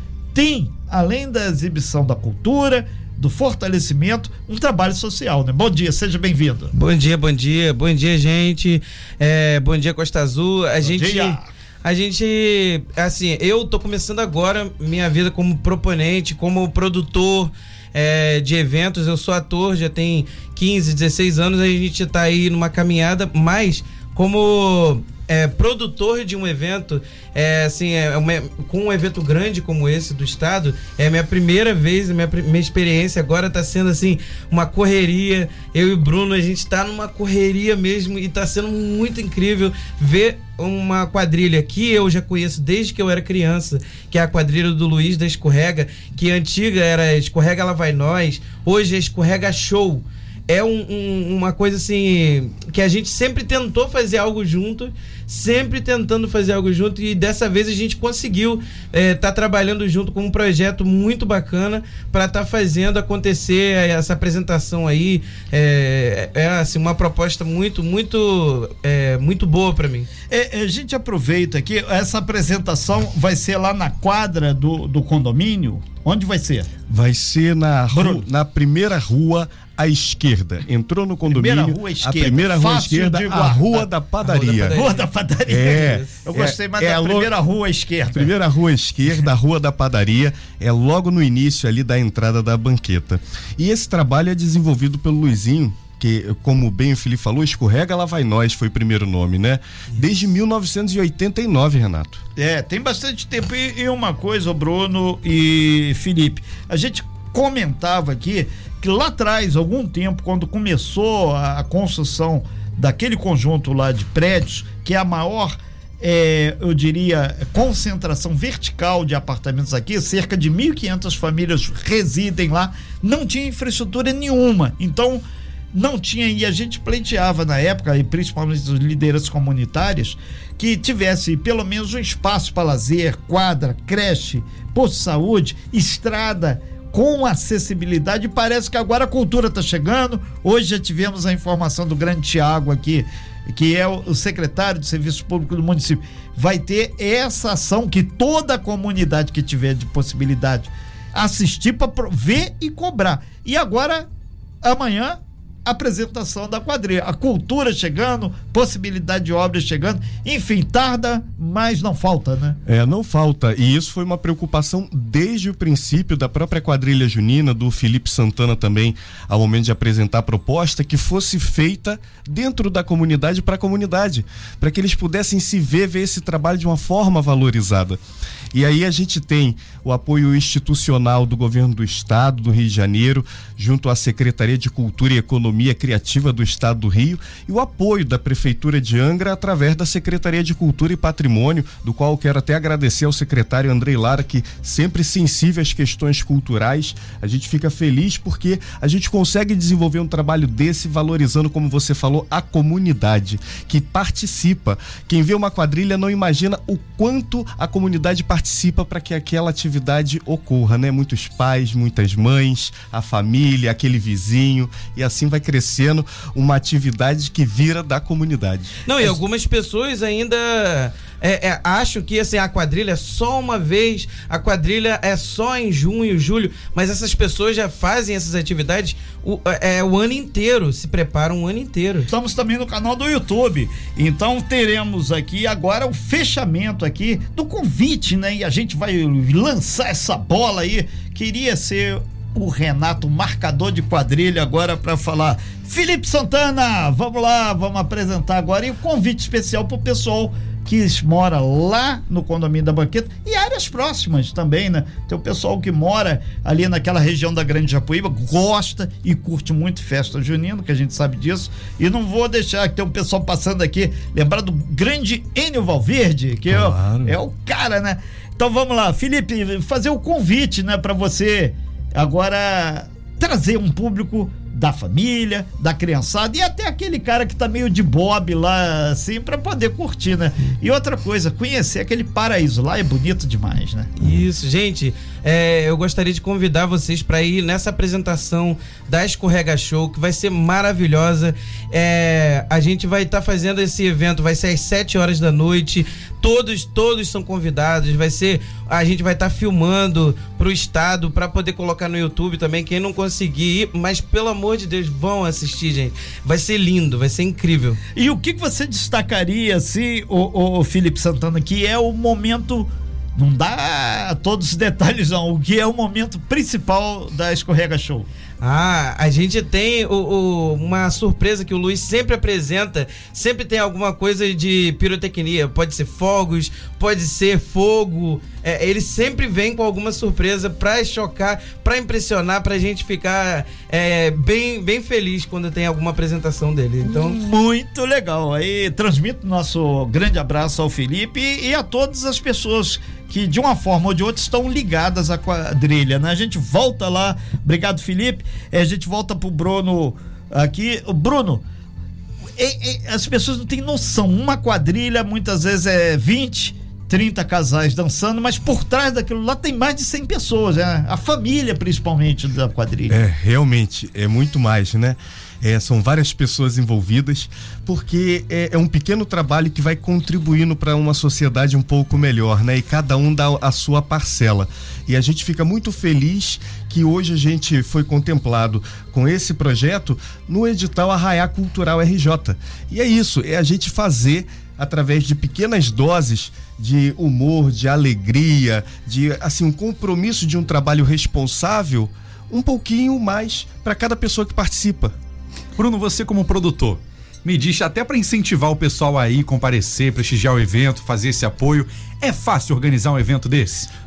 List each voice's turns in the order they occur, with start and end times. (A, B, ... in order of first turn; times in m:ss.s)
0:00.3-0:06.7 A
0:06.7-1:10.1 B
0:10.8-0:11.5 A
1:10.3-1:16.8 A
1:16.9-1:24.8 C
1:17.9-1:18.2 A
1:21.3-1:23.9 A
1:24.2-1:25.1 B
1:24.7-1:28.4 A
1:25.5-1:27.3 C
1:25.7-1:26.2 B
1:28.1-1:42.2 C
1:42.4-2:05.2 A
2:05.7-2:34.1 A
2:34.6-2:42.6 A
2:42.7-2:58.0 C
2:58.5-3:39.2 C
3:38.8-3:52.1 B
3:52.1-4:44.0 A
4:26.5-4:27.2 C
4:44.0-5:07.8 B
5:08.0-5:18.1 A
5:18.4-5:37.2 B
5:36.8-5:51.4 A
5:52.4-6:03.0 A
6:02.9-6:35.0 C
6:35.6-6:43.7 D